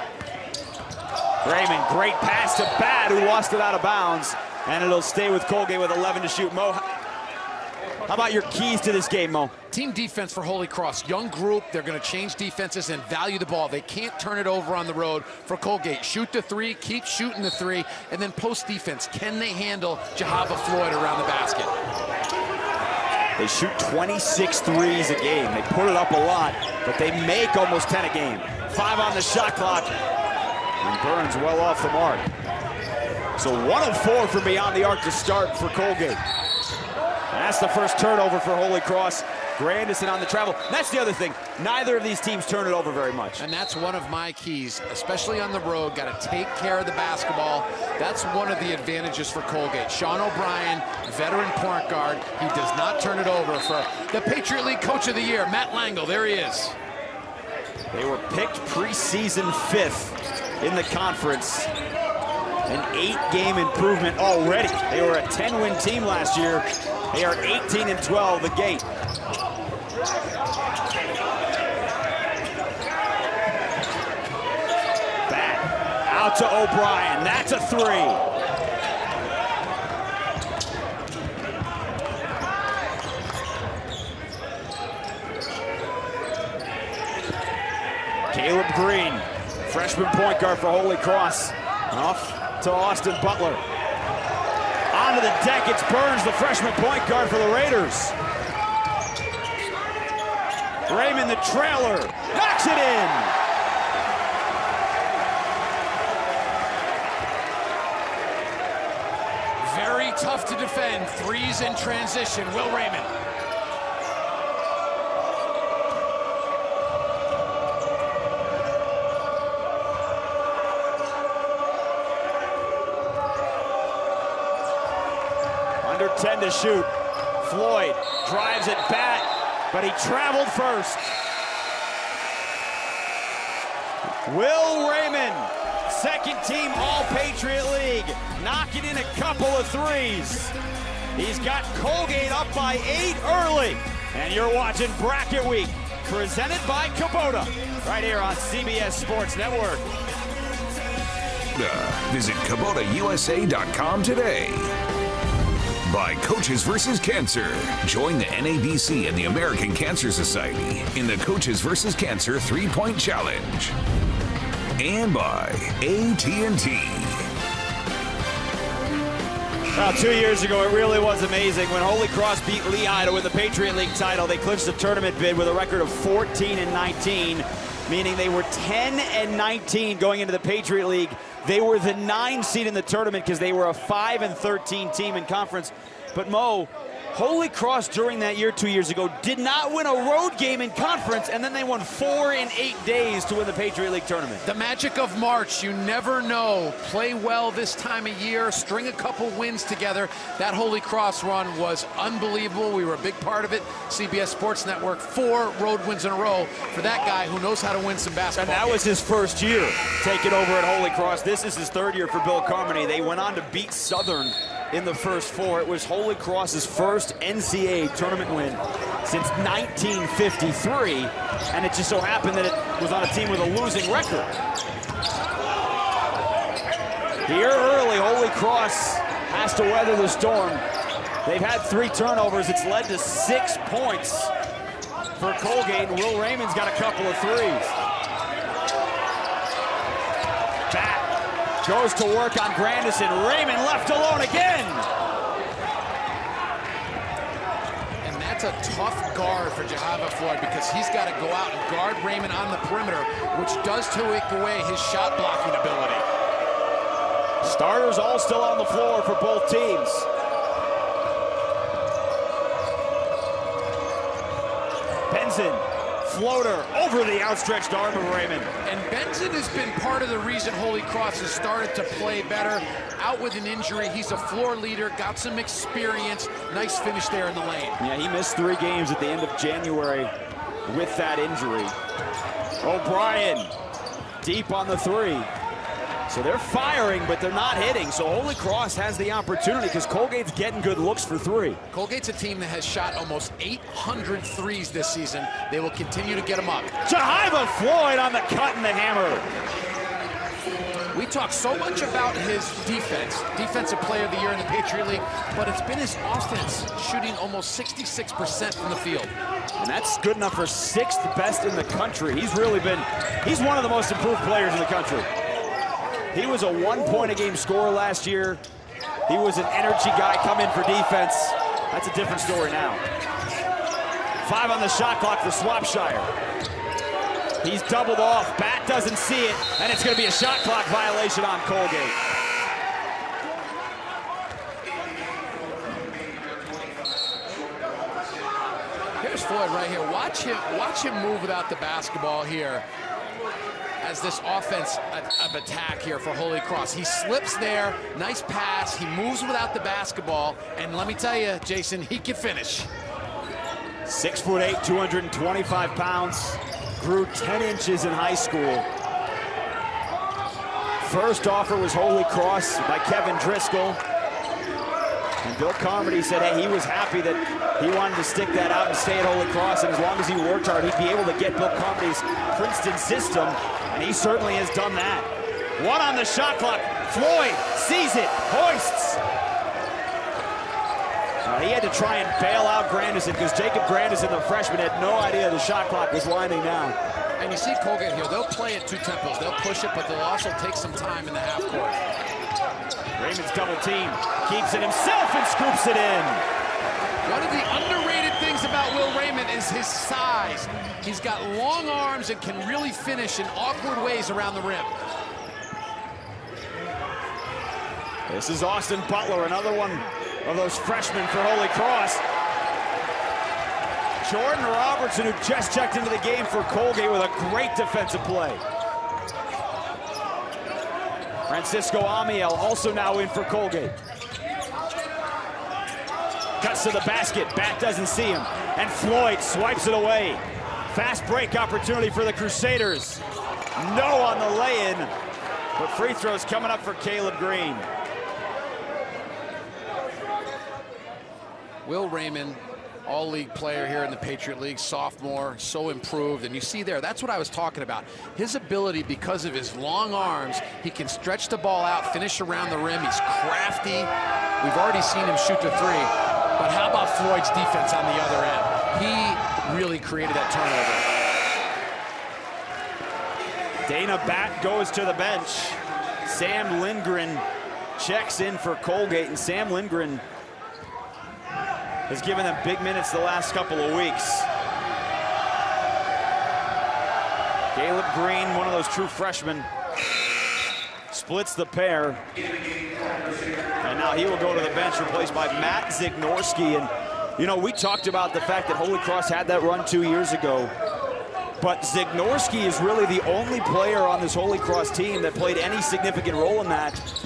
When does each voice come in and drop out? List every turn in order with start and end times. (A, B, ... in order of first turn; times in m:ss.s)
0:01.4-0:06.8 A
0:08.1-0:09.5 A
0:09.7-0:21.7 B
0:23.4-0:29.9 A
0:30.8-0:32.3 A
0:33.4-0:36.2 A
0:37.3-0:43.4 A
0:43.4-0:56.8 B
0:57.9-1:01.7 A
1:02.7-1:08.9 A
1:15.3-1:18.2 A
1:28.3-1:33.6 A
1:34.9-1:38.1 A
1:40.9-1:43.3 A
1:49.6-1:53.1 B
2:05.8-2:11.1 A
2:14.2-2:20.5 A
2:21.1-2:29.9 A
2:31.5-2:34.7 C
2:35.8-2:43.7 C
2:44.8-2:47.3 C
2:49.7-3:14.4 A
3:14.4-3:28.8 B
3:28.4-3:44.3 A
3:47.2-3:50.6 A
3:51.2-3:54.3 A
3:55.2-3:57.7 A
4:00.7-4:01.1 A
4:01.6-4:04.9 A
4:08.0-4:16.0 B
4:17.4-4:20.1 A
4:25.1-4:28.5 A
4:28.6-4:37.8 B
4:37.8-4:40.1 A
4:40.6-4:41.7 A
4:42.6-4:43.5 A
4:44.2-4:45.3 A
4:46.1-4:51.6 A
4:51.7-4:56.7 B
4:56.8-4:59.3 A
5:00.9-5:09.1 B
5:09.6-5:15.1 A
5:16.1-5:18.4 A
5:19.1-5:22.8 A
5:24.2-5:26.1 A
5:27.4-5:32.0 A
5:39.0-5:42.6 B
5:43.8-5:52.7 B
5:53.8-5:58.7 A
6:00.8-6:03.8 A
6:05.2-6:19.0 A
6:21.2-6:26.8 A
6:27.2-6:31.8 B
6:33.0-6:36.2 A
6:37.0-6:44.7 B
6:48.1-6:52.0 A
6:54.0-6:58.4 A
7:01.3-7:03.7 A
7:06.4-7:13.0 A
7:13.6-7:14.9 A
7:15.6-7:17.7 A
7:21.6-7:40.8 B
7:43.6-7:47.2 A
7:47.8-7:50.0 A
7:51.9-7:54.3 A
7:57.5-7:59.5 A
8:00.9-8:02.0 A
8:03.6-8:10.5 A
8:11.4-8:16.8 A